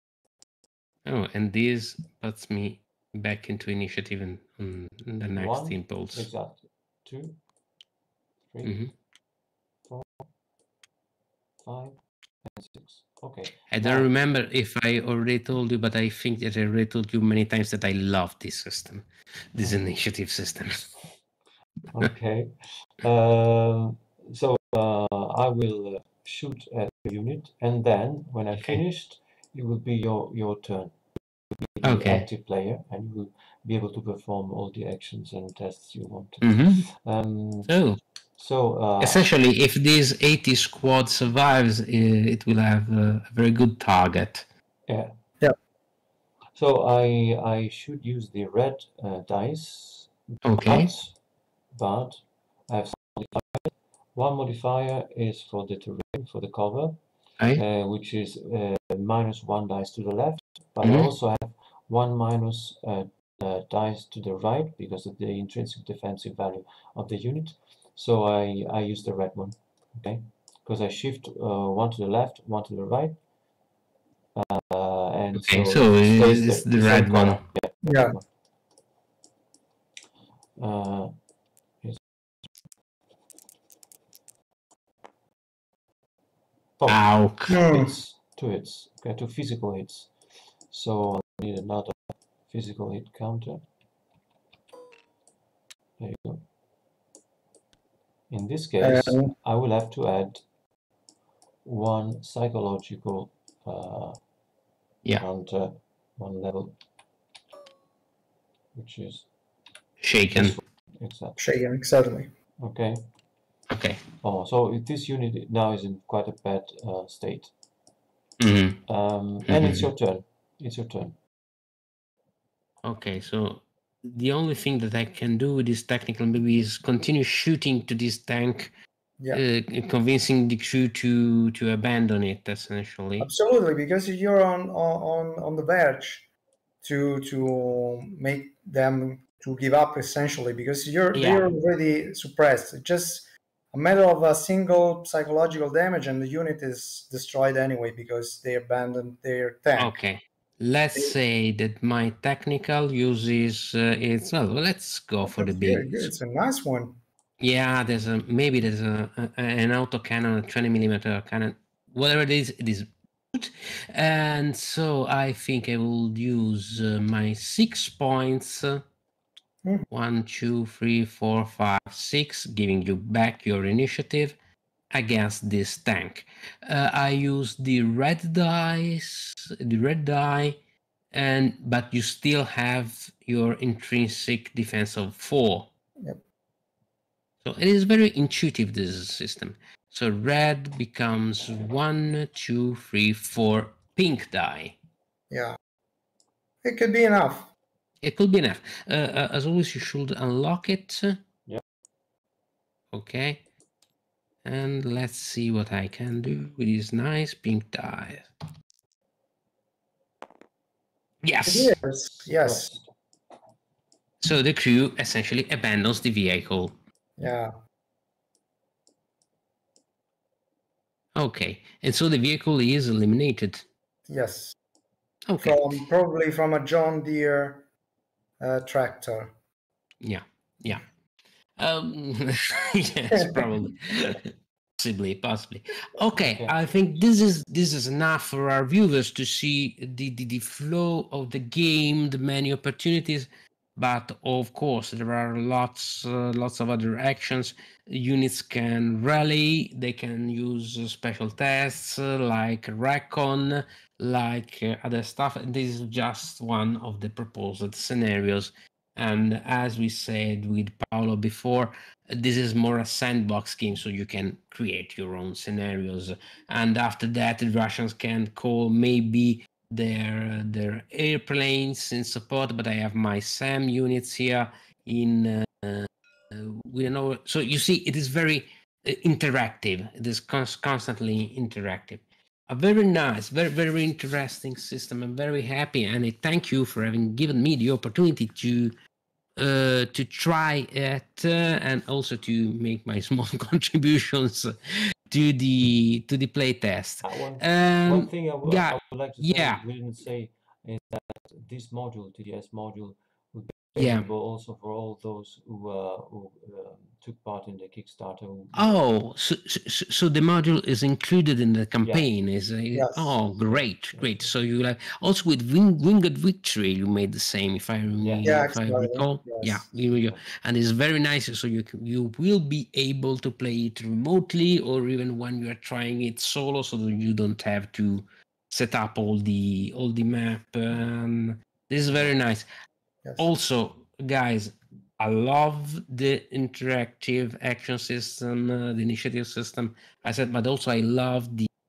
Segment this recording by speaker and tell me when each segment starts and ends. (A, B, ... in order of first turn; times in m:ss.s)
0:01.1-0:06.3 A
0:05.4-0:07.4 B
0:08.5-0:08.8 B
0:08.6-0:08.9 A
0:09.9-0:10.3 B
0:11.6-0:14.1 B
0:13.7-0:21.1 A
0:21.9-0:31.0 B
0:31.5-0:37.7 B
0:31.8-0:32.3 A
0:36.4-0:36.9 A
0:37.7-0:38.0 A
0:38.4-0:39.2 B
0:39.0-0:44.5 A
0:44.9-0:45.2 B
0:46.5-0:51.2 B
0:50.4-0:50.9 A
0:51.7-0:57.0 B
0:57.5-1:13.2 B
1:00.8-1:01.1 A
1:14.4-1:18.3 B
1:15.4-1:17.4 A
1:17.8-1:18.2 C
1:20.6-1:21.1 B
1:26.8-1:30.1 B
1:26.9-1:27.6 A
1:27.5-1:28.0 C
1:30.7-1:33.6 B
1:36.0-1:36.5 B
1:38.3-1:40.4 B
1:38.8-1:39.3 C
1:41.6-1:44.2 B
1:45.2-1:46.8 B
1:48.7-1:49.3 B
1:50.0-1:50.6 A
1:50.3-1:51.4 B
1:51.4-1:52.3 C
1:52.6-1:53.0 B
1:53.7-1:54.0 A
1:54.2-1:57.5 B
1:58.4-1:58.8 A
1:58.9-2:01.2 B
1:59.4-1:59.9 A
2:02.8-2:08.7 A
2:09.3-2:13.3 A
2:13.2-2:16.3 C
2:16.8-2:30.0 C
2:21.1-2:21.5 A
2:29.8-2:36.1 A
2:35.2-2:37.0 C
2:37.4-2:48.8 A
2:49.9-2:54.4 A
2:54.9-3:00.6 A
3:01.1-3:05.7 A
3:07.4-3:14.8 A
3:15.3-3:15.6 C
3:16.6-3:17.5 C
3:18.0-3:21.2 A
3:22.9-3:23.4 A
3:24.4-3:28.3 A
3:31.2-3:31.8 A
3:31.5-3:32.7 C
3:32.4-3:32.9 B
3:34.2-3:36.7 A
3:37.2-3:37.5 C
3:41.2-3:43.7 A
3:44.1-3:44.6 C
3:45.3-3:45.7 A
3:45.4-3:47.7 C
3:48.4-3:49.4 C
3:50.0-3:50.8 A
3:51.6-4:48.7 A
3:56.2-3:56.5 B
4:49.4-4:59.6 A
4:57.0-5:08.7 B
5:03.8-5:04.1 A
5:08.5-5:32.5 A
5:11.8-5:12.1 B
5:12.7-5:13.2 C
5:13.9-5:14.2 B
5:18.0-5:18.4 B
5:18.2-5:19.6 C
5:33.2-5:41.5 A